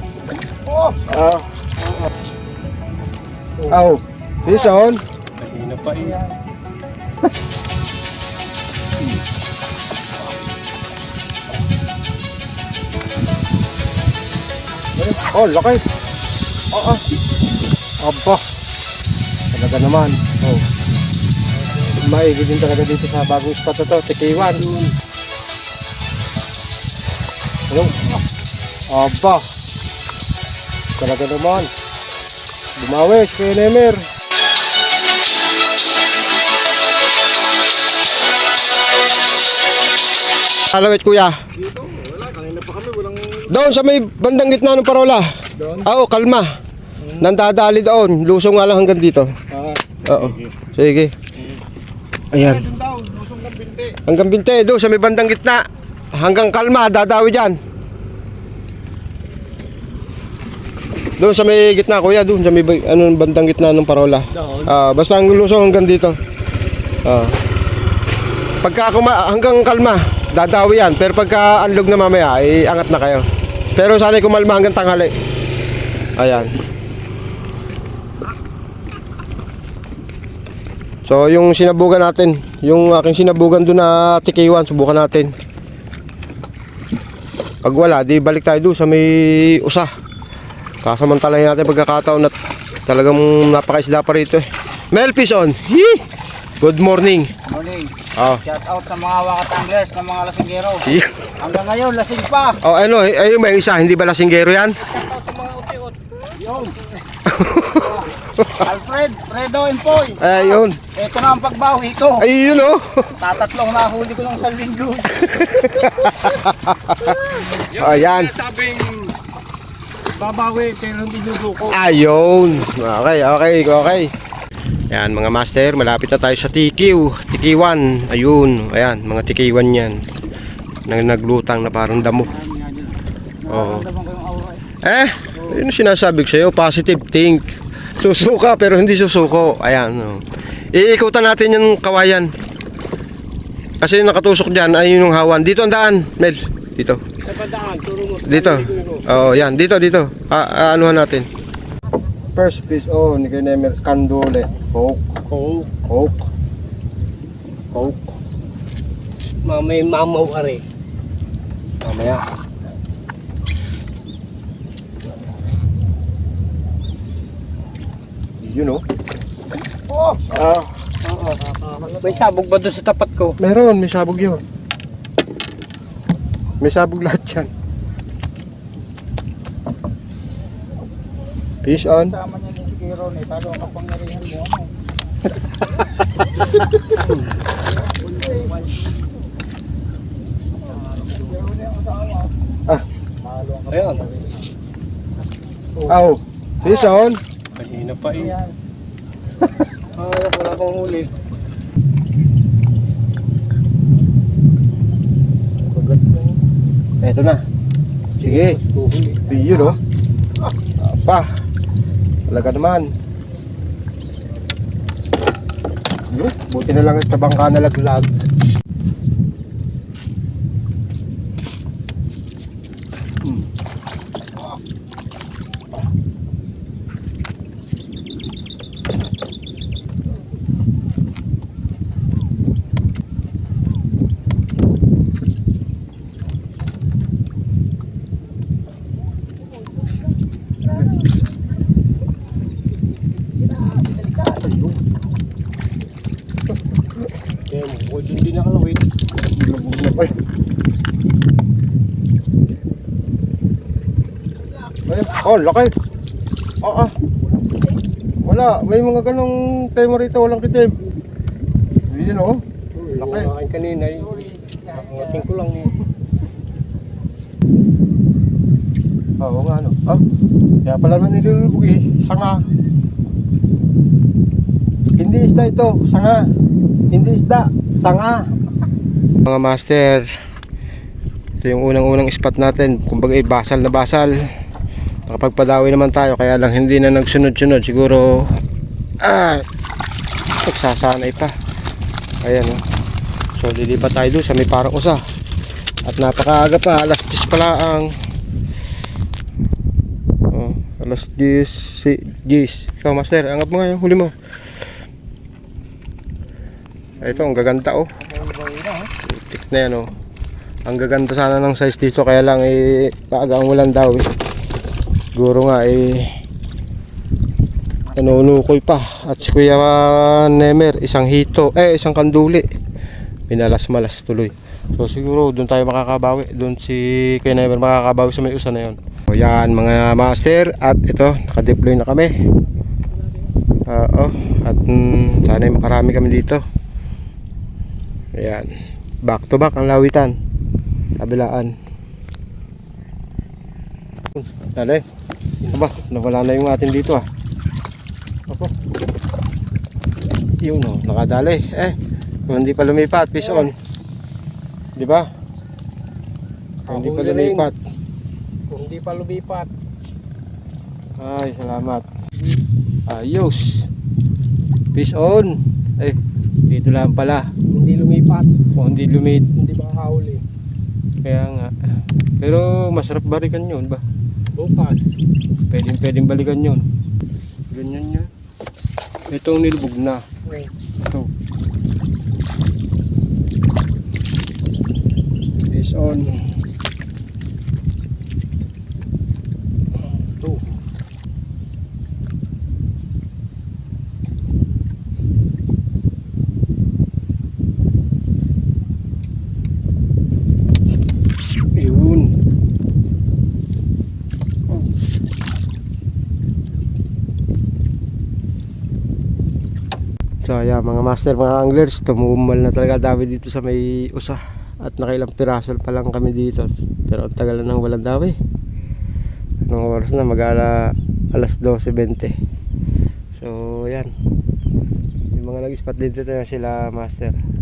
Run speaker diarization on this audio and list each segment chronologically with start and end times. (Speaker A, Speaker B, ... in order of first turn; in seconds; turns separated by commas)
Speaker A: 0.7-1.0, Speaker B: 1.0-1.7, Speaker B: 3.7-5.0, Speaker C: 5.4-6.2, Speaker B: 15.0-15.8, Speaker B: 16.7-17.1, Speaker B: 18.0-18.4, Speaker B: 19.5-20.6, Speaker B: 21.9-24.6, Speaker C: 24.4-25.0, Speaker B: 27.7-28.1, Speaker B: 28.9-29.4, Speaker B: 31.0-31.7, Speaker B: 32.8-34.0, Speaker B: 40.6-41.4, Speaker C: 41.8-43.4, Speaker B: 43.4-46.5, Speaker B: 47.1-51.1, Speaker B: 52.3-52.8, Speaker C: 52.9-53.8, Speaker B: 53.8-57.6, Speaker B: 61.2-66.2, Speaker B: 67.0-67.4, Speaker B: 68.6-75.2, Speaker B: 76.2-76.5, Speaker B: 81.0-85.3, Speaker B: 87.6-89.9, Speaker B: 90.8-92.3, Speaker B: 92.9-96.1, Speaker B: 96.6-97.3, Speaker A: 97.5-102.6, Speaker B: 98.2-98.5, Speaker B: 100.8-101.4, Speaker B: 102.6-104.8, Speaker C: 104.8-106.4, Speaker A: 106.4-106.8, Speaker B: 107.3-108.6, Speaker A: 107.8-108.0, Speaker A: 108.6-112.3, Speaker B: 110.2-110.8, Speaker B: 112.2-113.2, Speaker A: 113.2-115.3, Speaker B: 115.1-118.4, Speaker C: 117.1-119.2, Speaker C: 120.1-121.9, Speaker B: 121.6-124.1, Speaker B: 124.9-130.0, Speaker B: 130.9-132.4, Speaker A: 132.4-134.7, Speaker B: 133.5-133.9, Speaker B: 134.8-140.2, Speaker B: 140.7-142.3, Speaker B: 143.8-147.0, Speaker C: 147.2-149.3, Speaker B: 148.3-151.3, Speaker B: 152.3-155.1, Speaker C: 155.3-155.7, Speaker B: 155.8-156.3, Speaker B: 157.7-158.2, Speaker C: 159.4-160.6, Speaker B: 161.8-162.2, Speaker B: 168.4-168.8, Speaker A: 169.9-170.2, Speaker B: 170.2-170.7, Speaker C: 171.0-171.4, Speaker A: 171.4-172.1, Speaker C: 172.0-173.4, Speaker B: 173.4-174.4, Speaker B: 176.6-177.5, Speaker B: 181.6-182.2, Speaker A: 182.2-184.7, Speaker C: 187.0-187.4, Speaker A: 187.8-188.8, Speaker A: 190.8-192.3, Speaker A: 193.2-194.5, Speaker C: 193.7-194.2, Speaker B: 195.9-197.2, Speaker C: 197.6-198.4, Speaker C: 200.0-201.1, Speaker C: 205.7-206.4, Speaker B: 207.0-207.4, Speaker B: 208.2-208.6, Speaker C: 208.2-209.2, Speaker B: 209.3-209.8, Speaker B: 210.8-211.3, Speaker B: 212.3-212.9, Speaker B: 216.1-218.1, Speaker A: 243.5-244.5, Speaker C: 247.5-248.9, Speaker B: 249.2-250.1, Speaker B: 254.9-255.7, Speaker B: 256.6-256.9, Speaker B: 258.2-260.8, Speaker B: 261.9-262.4, Speaker C: 262.8-265.9, Speaker B: 262.9-263.3, Speaker A: 264.2-264.7, Speaker B: 269.2-270.0, Speaker B: 270.6-272.4, Speaker B: 275.0-276.2, Speaker B: 276.9-278.2, Speaker B: 279.2-280.1, Speaker B: 281.4-284.2, Speaker B: 285.1-288.3, Speaker B: 289.0-289.5, Speaker B: 290.4-291.3, Speaker B: 292.2-292.6, Speaker B: 293.4-295.0, Speaker B: 295.9-297.9, Speaker B: 300.3-304.1, Speaker B: 307.0-308.0, Speaker A: 308.1-308.8, Speaker B: 308.9-309.9, Speaker B: 310.6-314.1, Speaker B: 315.2-316.1, Speaker B: 317.9-322.5, Speaker B: 323.3-332.1, Speaker B: 333.7-336.4, Speaker B: 338.1-338.5, Speaker B: 339.0-340.1, Speaker B: 341.0-341.5, Speaker B: 344.1-344.8, Speaker B: 345.5-347.1, Speaker B: 350.4-351.8, Speaker B: 352.3-353.5, Speaker B: 354.8-355.1, Speaker C: 356.7-357.5, Speaker B: 356.7-357.6, Speaker C: 358.5-359.5, Speaker B: 361.0-361.9, Speaker B: 362.9-363.7, Speaker B: 364.7-367.3, Speaker C: 367.5-368.3, Speaker B: 368.5-369.3, Speaker C: 369.4-370.2, Speaker B: 371.0-371.5, Speaker B: 372.2-373.8, Speaker C: 374.4-374.9, Speaker B: 375.5-376.7, Speaker B: 377.5-378.1, Speaker B: 379.1-380.0, Speaker B: 380.8-381.1, Speaker B: 385.5-386.2, Speaker C: 390.0-390.6, Speaker B: 401.6-402.1, Speaker B: 410.2-418.2, Speaker B: 419.5-422.1, Speaker B: 423.1-423.9, Speaker B: 425.1-427.2